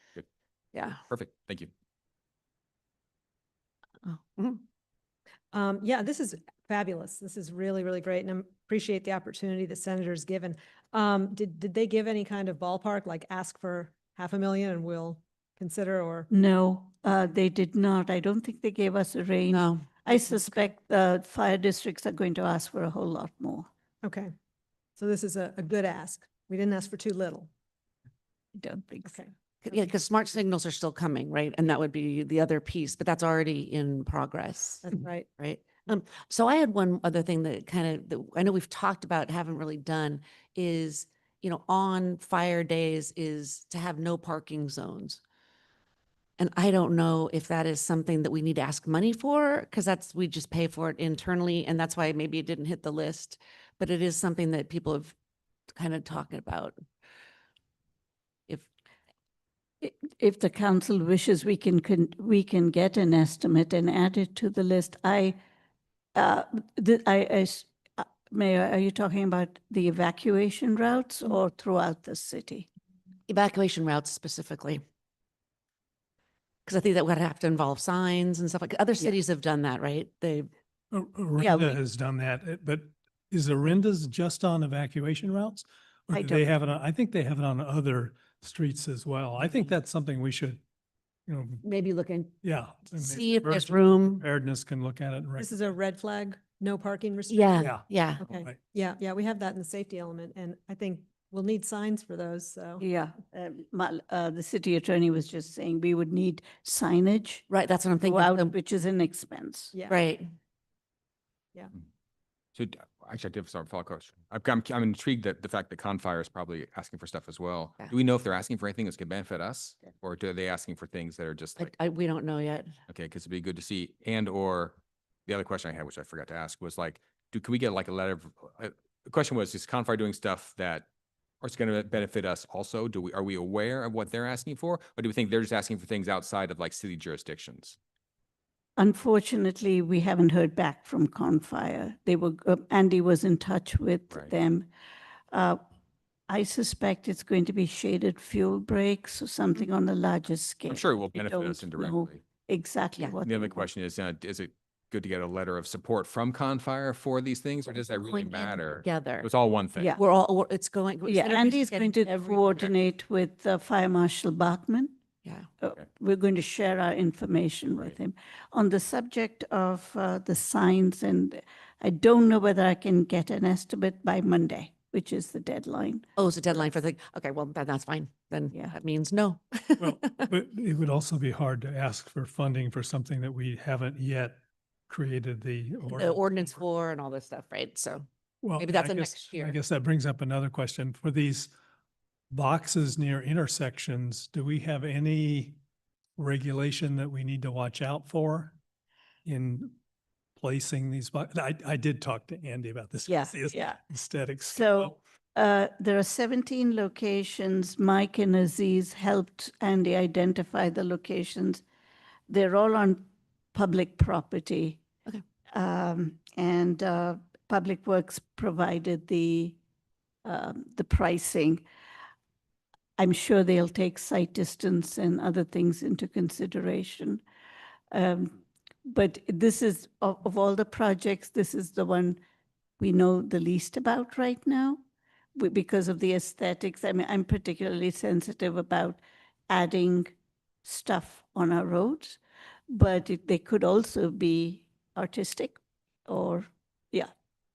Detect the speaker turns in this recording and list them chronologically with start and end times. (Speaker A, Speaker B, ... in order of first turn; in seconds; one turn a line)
Speaker A: 0.7-1.0
Speaker B: 1.1-1.7
Speaker A: 4.0-4.6
Speaker C: 5.5-16.3
Speaker D: 16.3-23.7
Speaker A: 19.5-19.8
Speaker C: 24.0-24.3
Speaker C: 24.9-27.5
Speaker D: 28.6-29.2
Speaker A: 29.6-45.2
Speaker C: 34.8-35.3
Speaker A: 46.4-55.1
Speaker A: 55.7-56.8
Speaker D: 59.8-65.4
Speaker D: 66.1-72.7
Speaker A: 73.3-74.8
Speaker A: 76.7-80.5
Speaker E: 80.9-90.6
Speaker D: 81.4-81.8
Speaker D: 86.1-86.5
Speaker E: 91.3-91.6
Speaker A: 91.6-92.3
Speaker E: 92.4-95.5
Speaker A: 93.0-94.3
Speaker C: 95.4-97.5
Speaker A: 97.3-98.2
Speaker E: 97.6-98.6
Speaker C: 98.2-102.8
Speaker D: 102.8-107.5
Speaker A: 107.5-108.5
Speaker D: 108.0-109.7
Speaker C: 109.7-110.0
Speaker A: 109.9-110.2
Speaker B: 112.5-121.7
Speaker A: 121.6-122.7
Speaker B: 122.9-130.9
Speaker B: 131.4-137.8
Speaker D: 138.8-144.7
Speaker D: 145.3-145.6
Speaker D: 146.3-153.7
Speaker B: 150.7-152.2
Speaker B: 153.2-159.9
Speaker A: 157.8-159.3
Speaker A: 159.9-162.7
Speaker D: 161.1-164.9
Speaker D: 165.6-176.1
Speaker A: 176.2-180.3
Speaker E: 179.8-186.2
Speaker A: 185.9-188.1
Speaker E: 188.4-191.5
Speaker A: 188.6-189.6
Speaker E: 192.3-195.6
Speaker E: 196.2-198.6
Speaker E: 199.2-199.8
Speaker E: 200.4-204.9
Speaker D: 203.1-203.8
Speaker D: 204.5-211.6
Speaker D: 212.3-214.8
Speaker D: 215.5-219.6
Speaker D: 220.2-221.6
Speaker D: 223.0-227.2
Speaker D: 227.9-232.2
Speaker D: 232.8-234.8
Speaker D: 235.3-247.1